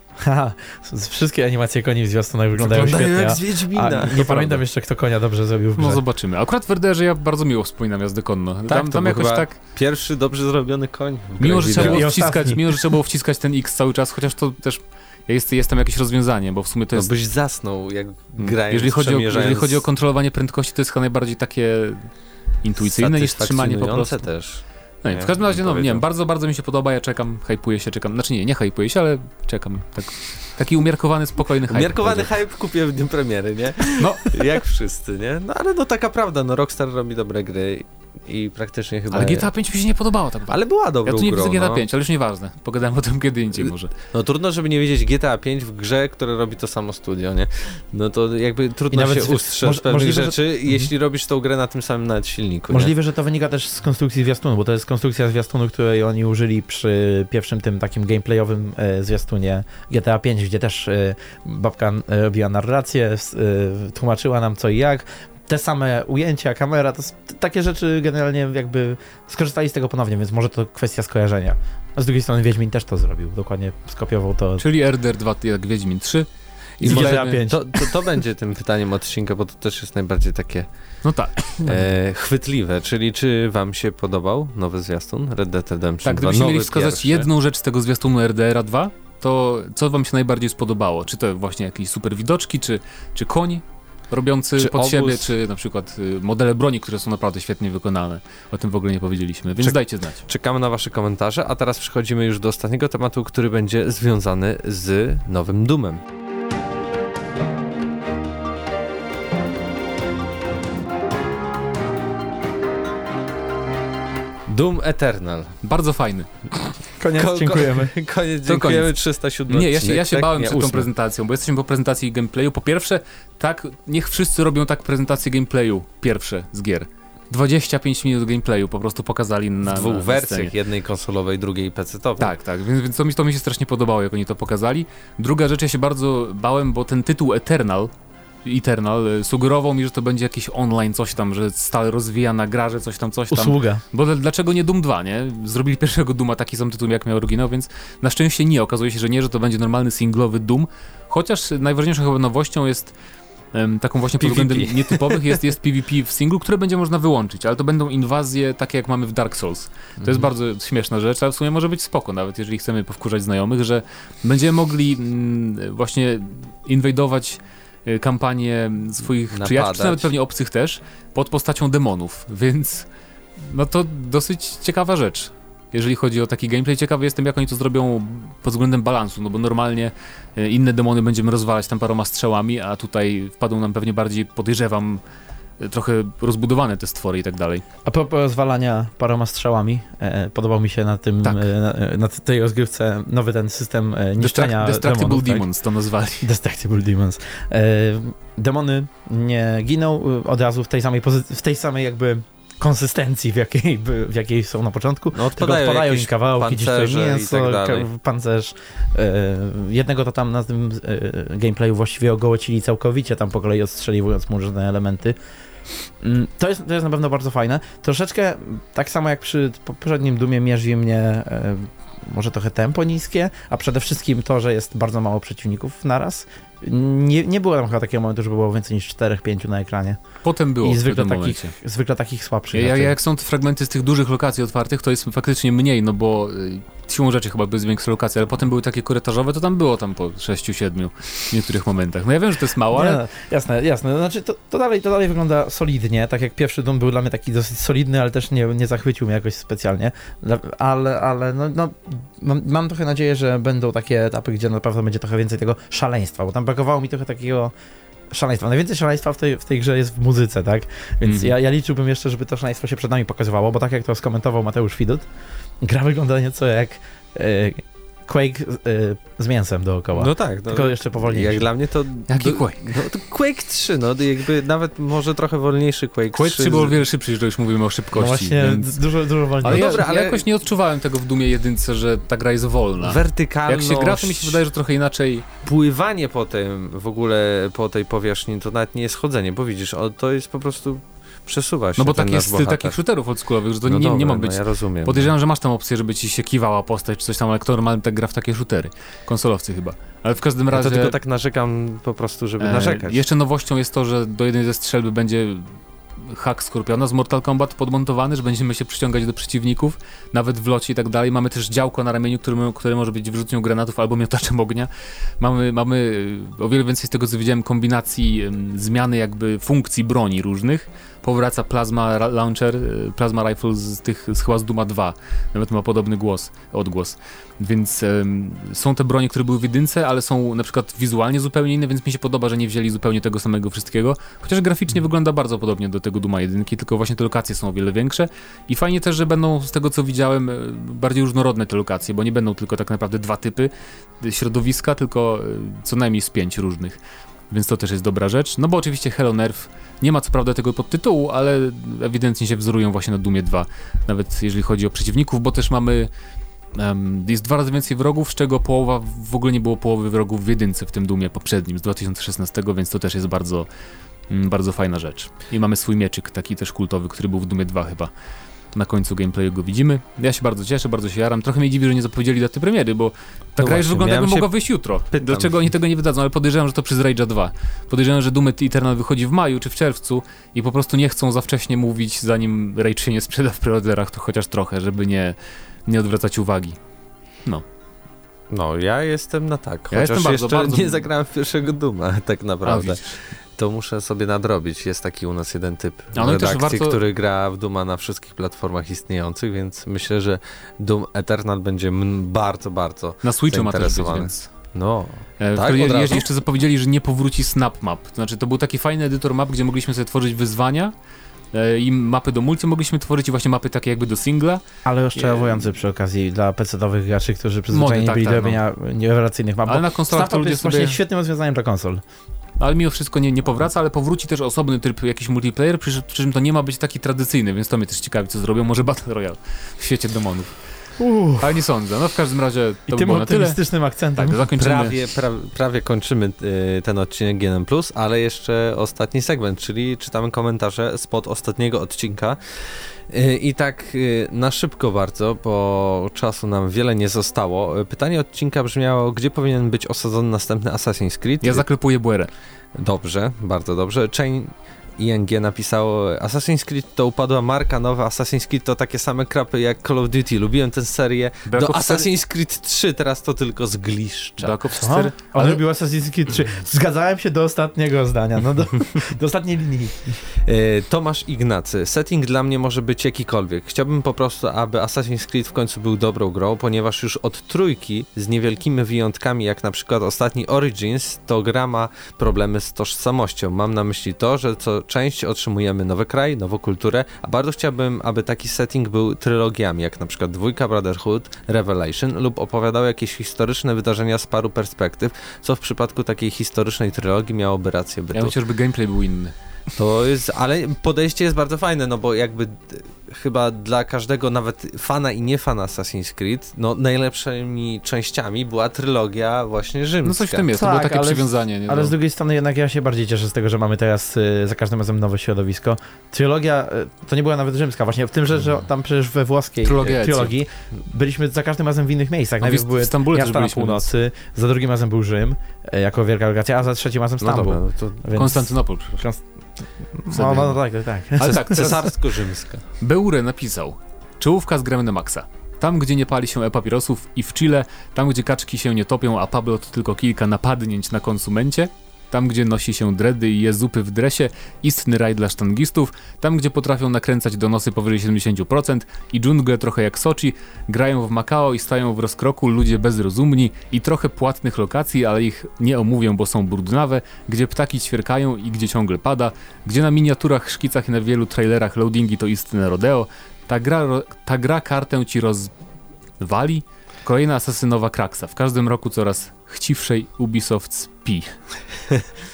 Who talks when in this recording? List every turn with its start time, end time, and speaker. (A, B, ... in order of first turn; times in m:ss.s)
0:00.2-0:06.0 A
0:02.6-0:04.6 B
0:05.8-0:09.6 C
0:08.7-0:12.0 B
0:11.4-0:17.1 C
0:11.6-0:12.8 A
0:16.9-0:19.8 B
0:18.4-0:22.1 C
0:22.6-0:24.3 C
0:22.8-0:26.0 B
0:25.0-0:32.3 C
0:31.7-0:39.5 B
0:34.0-0:34.3 C
0:39.1-0:43.9 C
0:40.5-0:41.8 B
0:43.7-0:52.9 B
0:48.9-0:50.9 A
0:52.7-1:14.6 A
1:14.6-1:17.4 C
1:16.8-1:17.9 A
1:16.8-1:20.7 B
1:21.0-1:21.5 C
1:21.6-1:27.3 B
1:26.0-1:40.2 C
1:34.6-1:35.3 B
1:39.6-1:46.0 B
1:54.5-1:55.6 B
1:55.6-1:56.3 C
1:57.0-1:57.9 A
1:57.1-2:00.9 B
1:58.5-1:58.9 C
1:59.5-2:10.5 C
2:09.7-2:12.3 B
2:12.2-2:17.9 C
2:18.4-2:33.0 C
2:23.3-2:23.8 A
2:33.5-2:52.9 C
2:34.2-2:35.4 B
2:40.0-2:40.3 B
2:49.3-2:50.1 B
2:53.4-3:05.0 C
3:05.6-3:07.6 C
3:07.8-3:15.5 A
3:11.2-3:11.5 C
3:14.2-3:16.3 C
3:16.2-3:35.2 A
3:25.2-3:27.9 B
3:36.0-3:50.0 A
3:50.2-3:51.5 C
3:50.6-3:53.0 A
3:52.5-4:03.0 C
4:02.7-4:17.5 A
4:18.1-4:25.1 A
4:21.0-4:21.3 C
4:25.6-4:31.5 A
4:29.9-4:36.8 B
4:32.1-4:32.8 C
4:36.1-4:38.8 C
4:37.9-4:39.8 A
4:39.4-4:45.2 C
4:39.4-4:40.2 B
4:42.8-4:44.4 B
4:45.4-4:52.8 B
4:51.8-5:00.9 C
4:53.6-4:55.1 B
5:00.5-5:03.0 B
5:02.4-5:05.5 C
5:06.0-5:46.8 C
5:47.3-5:55.9 C
5:56.6-6:03.5 C
6:04.1-6:07.9 C
6:08.5-6:26.6 C
6:13.4-6:15.4 B
6:28.3-6:46.1 B
6:29.7-6:30.8 C
6:32.4-6:32.8 C
6:35.9-6:36.8 C
6:43.0-6:44.3 C
6:45.2-6:50.7 C
6:51.3-6:54.4 C
6:54.6-7:01.8 A
6:55.0-6:55.5 C
6:57.5-6:58.4 C
6:59.5-7:00.8 C
7:02.4-7:10.3 C
7:10.8-7:11.4 A
7:11.2-7:13.4 C
7:12.7-7:14.3 A
7:14.0-7:14.8 C
7:14.4-7:31.5 B
7:31.2-7:32.1 C
7:32.6-7:44.4 B
7:41.3-7:41.9 C
7:44.2-7:45.4 C
7:44.5-7:50.0 A
7:50.2-8:18.1 B
8:17.9-8:19.1 C
8:19.6-8:30.3 B
8:29.8-8:31.7 C
8:30.3-8:51.6 A
8:39.4-8:40.1 C
8:42.2-8:43.7 C
8:47.0-8:47.8 B
8:48.0-8:48.8 C
8:49.9-8:50.4 C
8:51.0-8:51.7 C
8:51.1-8:52.4 B
8:52.6-9:25.3 C
9:26.0-9:31.2 C